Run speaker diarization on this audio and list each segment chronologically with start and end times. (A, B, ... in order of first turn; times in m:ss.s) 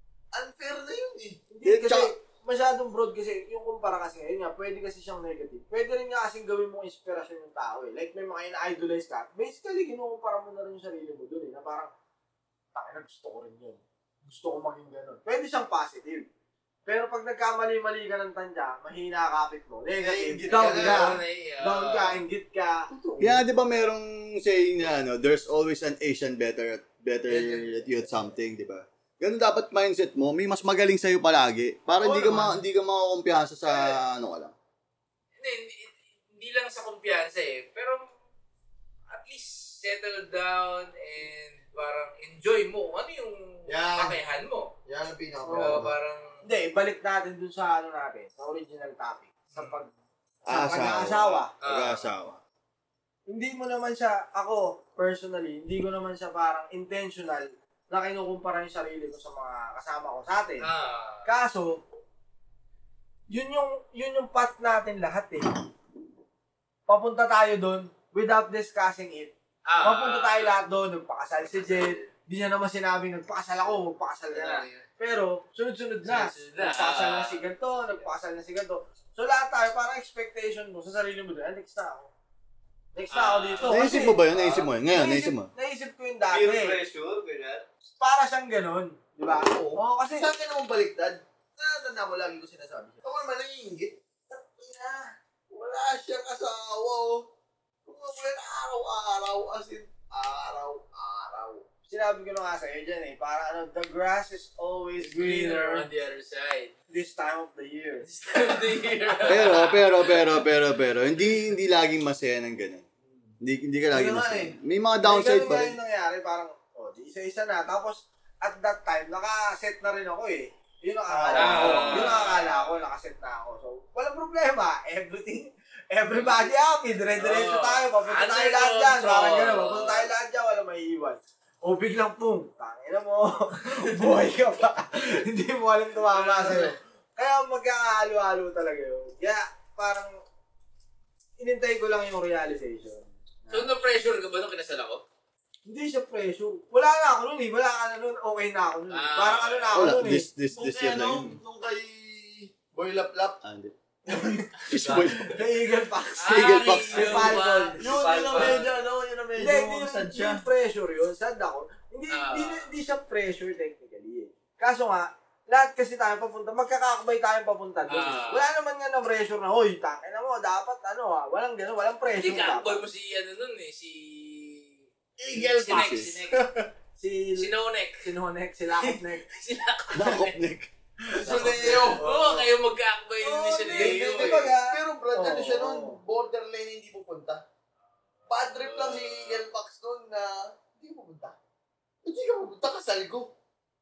0:00.3-0:01.4 A
0:01.5-0:11.9 B
0:01.6-0:02.1 C
0:12.8-0:16.3 B
0:16.9-0:22.9 B
0:20.0-0:21.2 A
0:20.5-0:22.2 D
0:22.9-0:23.4 A
0:23.2-0:34.5 C
0:32.0-0:32.5 B
0:35.4-0:38.0 D
0:39.1-0:44.7 D
0:43.7-0:44.2 A
0:44.9-0:46.0 A
0:45.4-0:45.8 B
0:45.5-0:46.4 D
0:46.4-0:49.9 B
0:50.4-0:52.4 C
0:50.5-0:51.5 B
0:51.6-0:52.1 D
0:53.3-1:00.7 B
1:00.6-1:01.2 D
1:01.2-1:01.8 B
1:03.3-1:05.5 B
1:06.9-1:22.1 B
1:09.7-1:10.6 D
1:11.5-1:12.1 D
1:14.3-1:14.9 D
1:16.0-1:17.4 D
1:22.9-1:26.8 B
1:23.1-1:23.9 D
1:23.6-1:25.5 C
1:26.3-1:27.6 E
1:28.0-1:30.3 B
1:29.2-1:37.3 A
1:37.8-1:41.7 A
1:41.9-1:45.9 B
1:45.0-1:46.7 D
1:46.9-1:48.1 B
1:48.1-1:50.4 D
1:49.2-1:52.8 C
1:53.4-1:55.8 C
1:53.9-1:54.6 A
1:55.0-2:20.2 B
2:01.1-2:02.1 A
2:01.3-2:02.8 D
2:01.6-2:02.0 C
2:07.2-2:10.1 D
2:16.1-2:16.8 D
2:21.4-2:23.7 B
2:23.5-2:25.0 D
2:25.7-2:30.3 B
2:28.9-2:29.8 D
2:29.7-2:31.4 C
2:30.5-2:33.4 A
2:33.4-2:33.7 C
2:34.1-2:34.5 B
2:34.7-2:35.4 C
2:34.7-2:35.4 E
2:35.3-2:38.5 B
2:36.2-2:37.3 C
2:36.2-2:38.5 D
2:37.8-2:40.4 A
2:37.9-2:38.7 E
2:39.4-2:52.8 B
2:42.1-2:42.7 D
2:47.9-2:48.5 D
2:52.2-2:54.8 D
2:55.2-2:56.7 A
2:55.3-2:56.5 D
2:55.7-2:56.2 C
2:57.0-2:57.5 B
2:57.4-2:58.1 D
2:58.0-2:59.2 B
2:58.8-3:00.4 D
2:59.9-3:00.7 C
3:01.1-3:02.5 B
3:01.1-3:04.5 D
3:01.2-3:02.1 A
3:03.2-3:06.0 B
3:03.7-3:07.4 A
3:08.2-3:09.4 D
3:08.3-3:11.4 A
3:12.0-3:13.3 A